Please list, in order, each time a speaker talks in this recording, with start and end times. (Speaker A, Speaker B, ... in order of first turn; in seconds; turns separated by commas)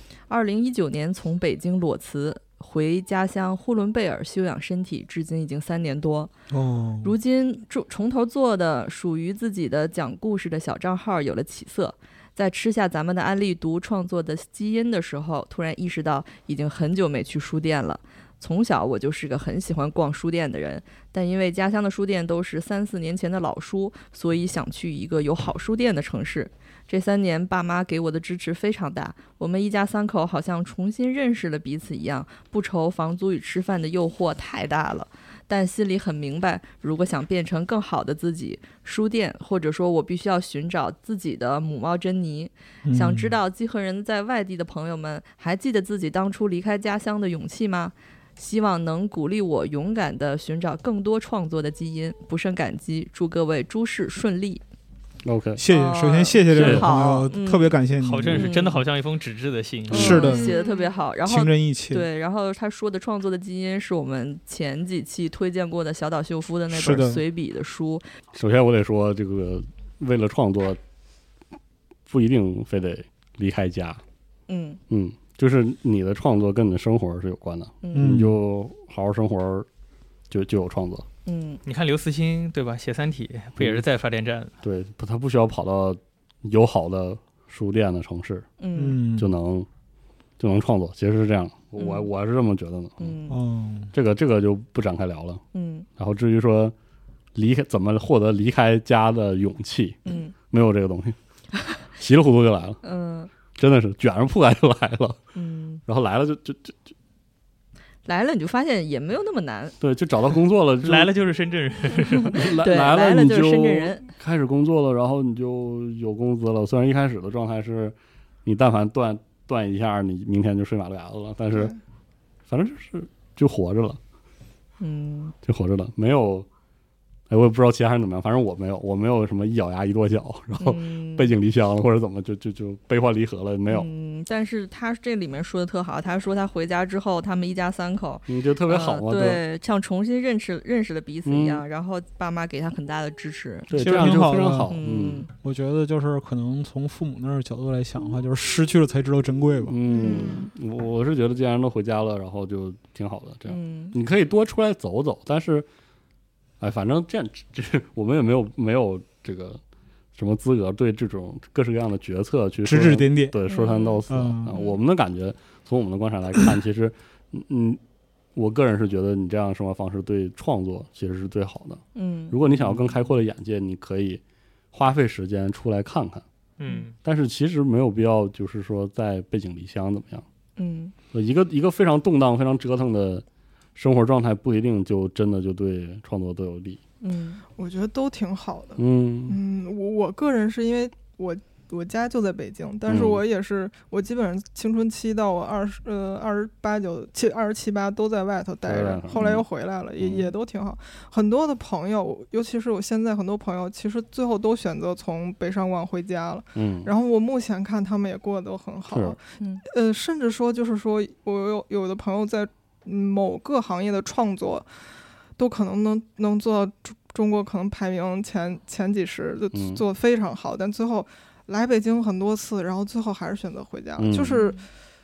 Speaker A: 0.3-6.3, Speaker B: 6.5-7.1, Speaker A: 7.0-54.6, Speaker B: 42.8-43.3, Speaker C: 55.2-55.6, Speaker B: 55.6-58.6, Speaker A: 55.7-58.8, Speaker C: 56.5-56.9, Speaker D: 58.0-60.3, Speaker C: 59.9-60.3, Speaker B: 59.9-60.5, Speaker A: 59.9-68.0, Speaker E: 60.1-60.9, Speaker B: 61.2-62.0, Speaker B: 66.7-67.2, Speaker C: 68.3-70.8, Speaker C: 72.1-74.0, Speaker A: 74.5-74.8, Speaker C: 74.9-79.7, Speaker A: 77.8-78.1, Speaker B: 77.9-78.4, Speaker C: 80.3-81.0, Speaker A: 81.2-81.6, Speaker D: 81.6-84.5, Speaker C: 83.6-83.8, Speaker C: 84.6-88.5, Speaker A: 88.6-89.0, Speaker B: 88.8-89.3, Speaker C: 89.2-89.7, Speaker C: 90.4-93.2, Speaker A: 91.8-92.1, Speaker A: 93.0-93.4, Speaker B: 93.3-93.9, Speaker C: 93.9-95.4, Speaker A: 95.5-95.9, Speaker C: 96.0-96.7, Speaker C: 97.3-101.2, Speaker A: 100.0-100.3, Speaker C: 102.0-102.8, Speaker A: 102.8-103.3, Speaker C: 103.5-105.2, Speaker A: 105.3-105.8, Speaker C: 105.9-106.9, Speaker A: 108.0-109.8, Speaker C: 109.8-111.1, Speaker D: 110.8-112.5, Speaker C: 112.3-121.7, Speaker A: 112.3-114.1, Speaker C: 122.5-124.0, Speaker A: 124.8-125.3, Speaker C: 125.4-126.5, Speaker C: 127.3-133.9, Speaker A: 130.6-131.3, Speaker A: 133.7-145.3, Speaker C: 138.3-139.4, Speaker C: 141.2-141.6, Speaker C: 143.7-145.3, Speaker B: 143.7-144.8, Speaker B: 145.3-149.8, Speaker C: 149.7-155.7, Speaker E: 149.9-150.4, Speaker A: 149.9-150.4, Speaker A: 153.5-153.9, Speaker C: 156.6-159.6, Speaker C: 160.1-167.8, Speaker B: 162.6-163.4, Speaker A: 163.5-164.8, Speaker B: 164.1-164.5, Speaker C: 168.3-174.2, Speaker A: 171.9-172.4, Speaker C: 174.7-176.2, Speaker D: 176.6-176.9, Speaker C: 177.0-180.2, Speaker A: 180.6-180.9, Speaker C: 181.1-186.8, Speaker A: 187.0-187.4, Speaker E: 187.5-214.7, Speaker C: 188.8-189.4, Speaker C: 192.9-193.2, Speaker C: 198.6-199.4, Speaker C: 200.0-200.3, Speaker C: 206.5-206.9, Speaker C: 208.9-209.2, Speaker A: 209.4-209.6, Speaker E: 215.4-224.6, Speaker C: 219.5-219.8, Speaker C: 224.0-224.4